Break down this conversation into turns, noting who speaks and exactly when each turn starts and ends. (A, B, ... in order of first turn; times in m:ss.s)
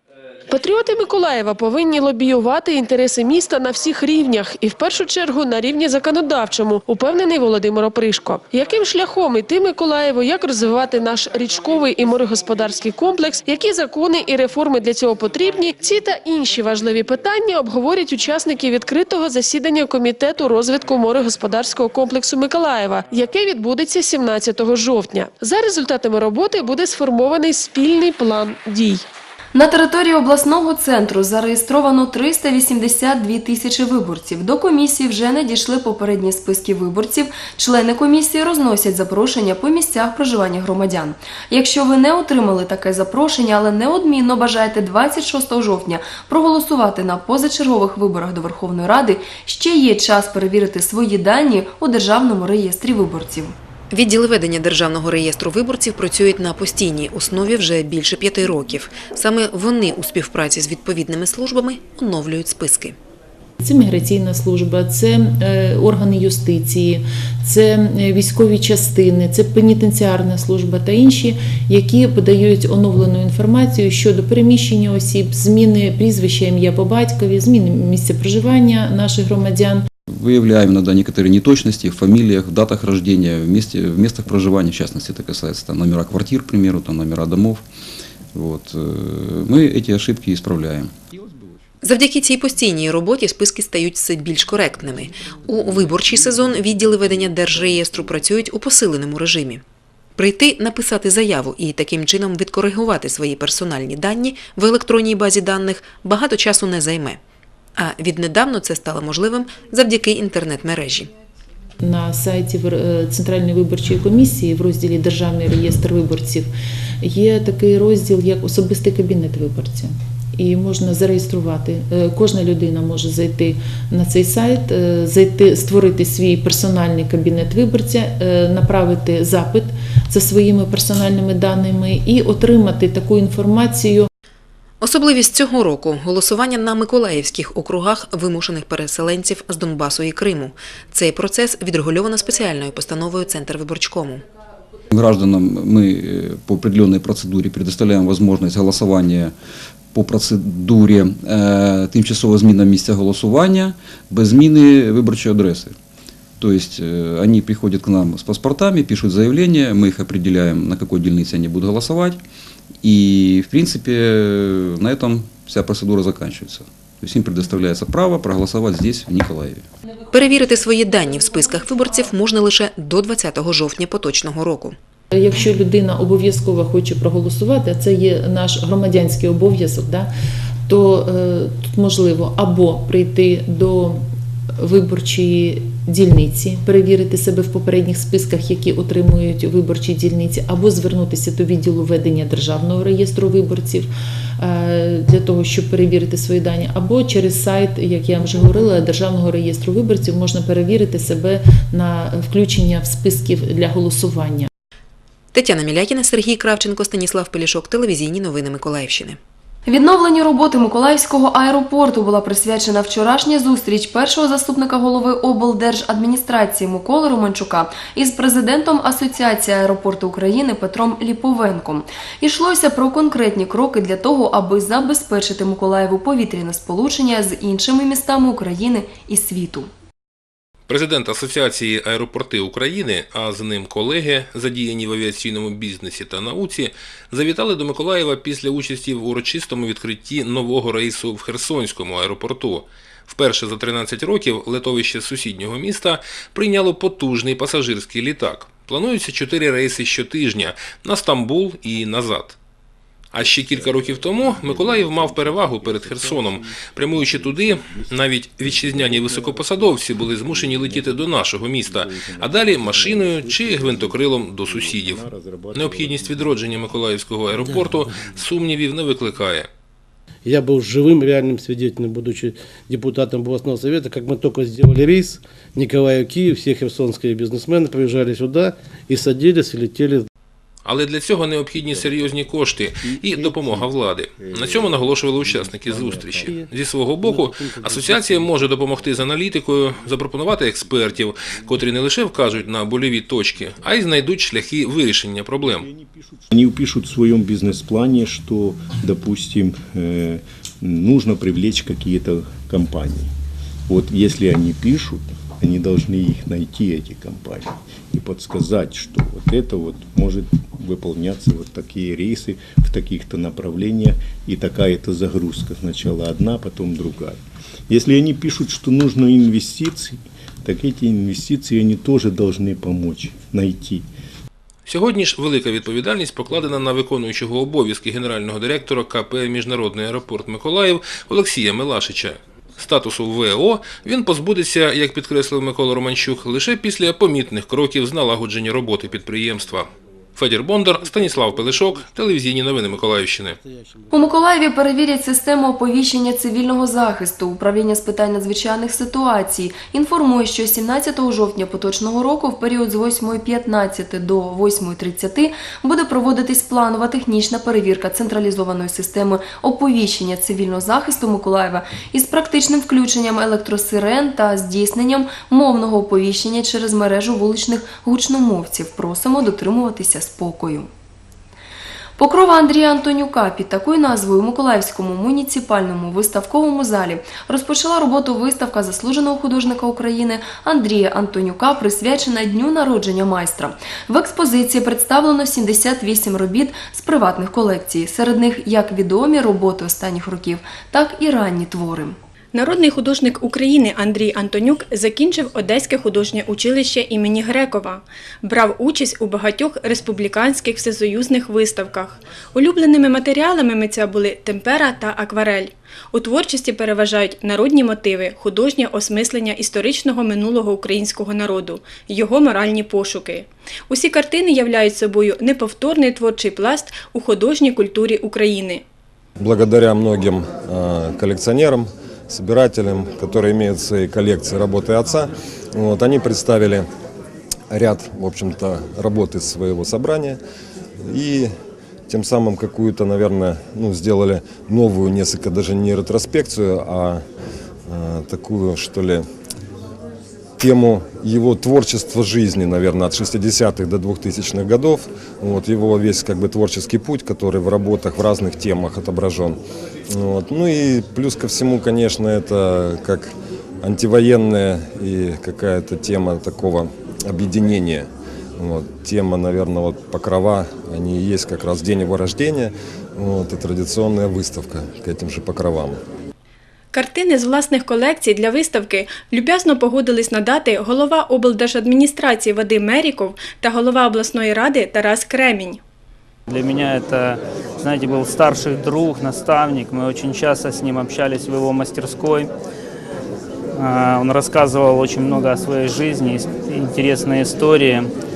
0:00.5-0:29.0 A
0:29.5-0:53.5 B
0:53.9-1:03.0 C
1:03.6-1:19.9 D
1:20.1-1:27.6 E
1:28.3-1:30.9 E
1:31.8-1:39.6 C
1:40.2-1:47.2 C
1:47.8-1:51.1 C
1:51.8-2:14.1 D
2:14.8-2:24.2 C
2:24.9-2:29.3 E
2:29.9-2:35.7 E
2:36.4-2:42.2 E
2:42.8-2:49.6 E
2:50.1-2:54.7 C
2:55.1-3:00.1 D
3:00.7-3:04.0 D
3:04.6-3:24.5 D
3:25.3-3:29.2 C
3:29.6-3:49.7 B
3:50.7-4:12.4 F
4:13.1-4:29.5 F
4:13.2-4:21.1 G
4:21.6-4:26.4 G
4:30.2-4:40.0 H
4:40.6-4:55.6 F
4:41.7-4:42.2 G
4:42.8-4:46.4 G
4:47.1-4:48.3 G
4:50.6-4:51.6 G
4:55.4-5:03.1 G
5:03.7-5:23.8 G
5:24.7-5:43.4 F
5:43.9-6:10.7 B
6:12.0-6:31.9 B
6:32.3-6:58.6 I
6:59.2-7:06.7 J
7:07.5-7:10.2 J
7:10.8-7:11.3 J
7:11.9-7:17.0 J
7:17.7-7:19.0 J
7:20.4-7:45.8 J
7:46.7-7:55.6 I
7:56.3-8:02.3 K
8:03.5-8:07.9 K